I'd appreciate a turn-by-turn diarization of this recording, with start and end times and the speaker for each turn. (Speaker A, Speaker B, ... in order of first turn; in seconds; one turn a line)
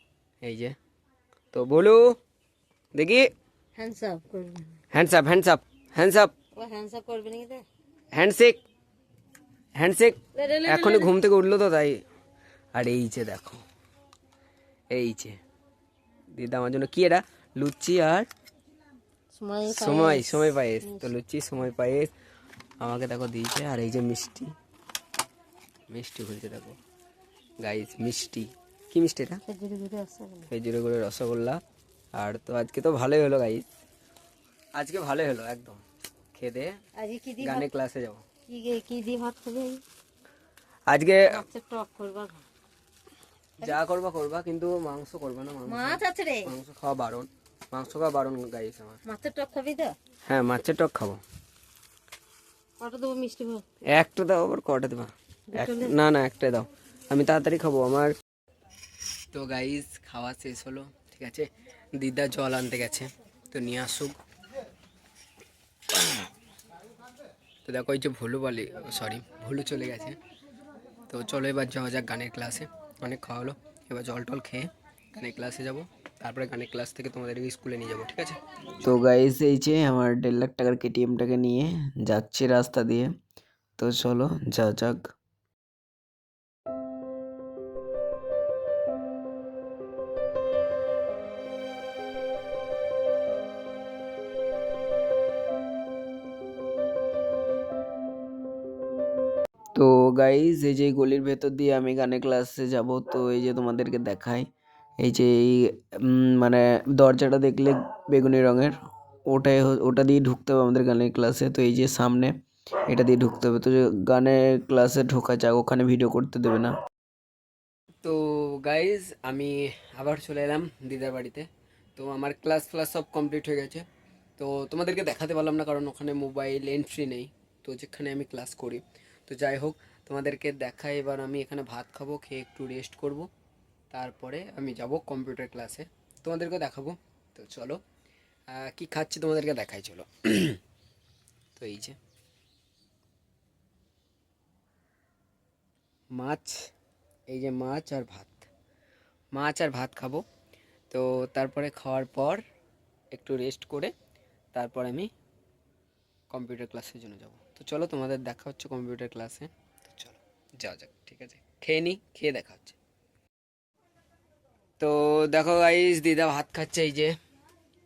Speaker A: 0.4-0.8
Speaker A: 1.5-2.1
Speaker A: 2.9-3.3
Speaker B: 3.8-4.8
Speaker A: 4.9-6.3
Speaker B: 6.5-7.7
Speaker A: 8.1-8.6
Speaker A: 9.8-12.0
Speaker B: 10.3-11.1
Speaker A: 12.7-13.6
Speaker A: 14.9-15.4
Speaker A: 16.3-18.3
Speaker B: 19.3-21.1
Speaker A: 19.7-22.1
Speaker A: 22.8-24.5
Speaker A: 25.9-26.8
Speaker A: 27.6-29.4
Speaker B: 29.4-30.5
Speaker A: 30.5-31.6
Speaker A: 32.1-33.6
Speaker A: 34.7-36.8
Speaker B: 37.0-37.7
Speaker A: 37.4-38.2
Speaker B: 38.5-39.8
Speaker A: 40.9-41.4
Speaker B: 41.3-42.4
Speaker A: 43.6-49.0
Speaker B: 45.7-46.5
Speaker B: 49.0-50.0
Speaker A: 50.3-51.2
Speaker B: 52.8-53.6
Speaker A: 53.9-58.1
Speaker B: 55.5-55.9
Speaker A: 59.3-64.2
Speaker A: 65.9-66.3
Speaker A: 67.6-70.2
Speaker A: 71.1-78.4
Speaker C: 78.8-83.1
Speaker C: 83.8-85.1
Speaker C: 99.7-104.5
Speaker C: 105.0-108.8
Speaker C: 109.3-112.3
Speaker C: 112.9-116.7
Speaker A: 118.0-123.8
Speaker A: 124.4-133.3
Speaker A: 133.9-137.8
Speaker A: 138.5-140.6
Speaker A: 141.6-142.0
Speaker A: 146.1-146.7
Speaker A: 147.3-148.5
Speaker A: 149.3-150.2
Speaker A: 150.9-152.4
Speaker A: 153.1-153.9
Speaker A: 154.5-155.1
Speaker A: 156.3-162.8
Speaker A: 164.8-167.1